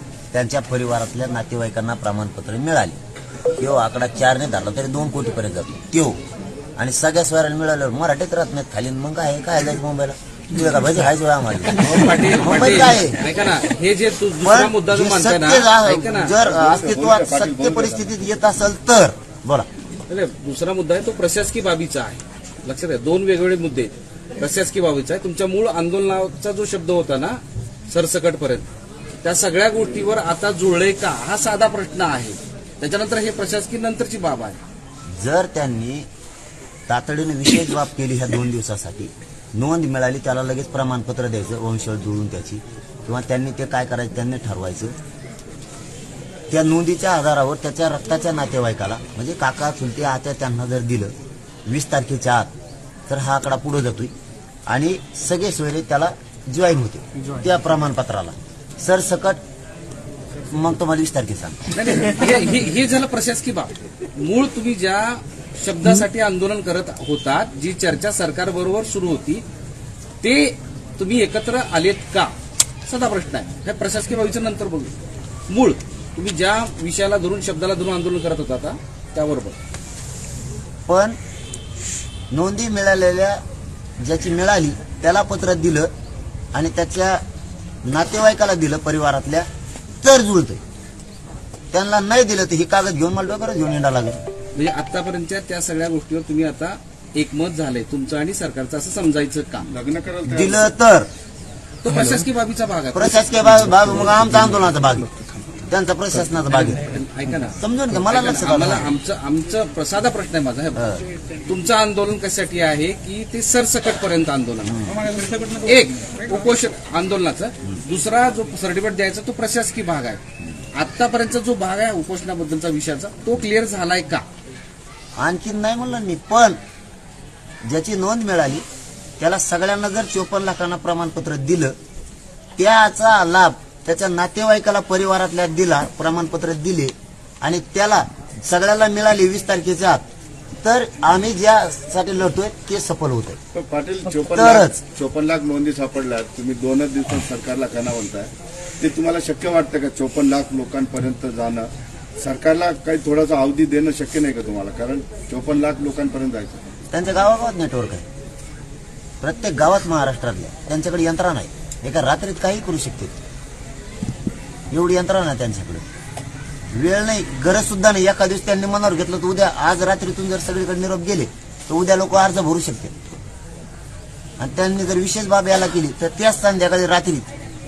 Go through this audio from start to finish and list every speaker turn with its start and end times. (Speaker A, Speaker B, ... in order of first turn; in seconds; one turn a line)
Speaker A: 0.3-3.0
Speaker A: 3.6-6.2
Speaker A: 6.8-13.2
Speaker B: 11.8-16.4
Speaker A: 14.4-19.7
Speaker C: 16.4-18.1
Speaker B: 20.1-27.4
Speaker B: 27.9-28.7
Speaker B: 29.2-34.6
Speaker A: 35.2-36.0
Speaker A: 36.9-44.9
Speaker A: 46.5-51.1
Speaker A: 51.7-52.5
Speaker A: 53.1-54.1
Speaker A: 54.7-59.4
Speaker A: 60.5-61.6
Speaker B: 61.7-69.4
Speaker B: 70.2-72.3
Speaker B: 72.9-74.9
Speaker B: 75.5-79.6
Speaker A: 80.9-81.2
Speaker A: 82.3-83.4
Speaker A: 84.0-85.9
Speaker A: 86.5-87.2
Speaker A: 87.8-89.5
Speaker A: 90.0-90.6
Speaker A: 91.7-94.2
Speaker B: 94.5-99.7
Speaker C: 99.7-100.6
Speaker A: 100.3-101.1
Speaker B: 101.8-103.2
Speaker A: 101.9-102.2
Speaker A: 102.9-105.1
Speaker A: 105.7-106.8
Speaker B: 106.5-110.8
Speaker A: 107.6-108.9
Speaker A: 110.8-111.0
Speaker B: 111.5-114.8
Speaker A: 114.7-115.0
Speaker B: 115.5-120.2
Speaker B: 120.8-124.2
Speaker A: 125.2-126.6
Speaker A: 127.7-128.6
Speaker A: 129.2-131.7
Speaker A: 132.6-140.1
Speaker A: 140.6-143.4
Speaker C: 143.5-156.6
Speaker A: 144.1-144.8
Speaker A: 156.9-158.0
Speaker A: 159.2-163.1
Speaker A: 164.7-165.8
Speaker A: 166.7-172.9
Speaker A: 174.4-177.3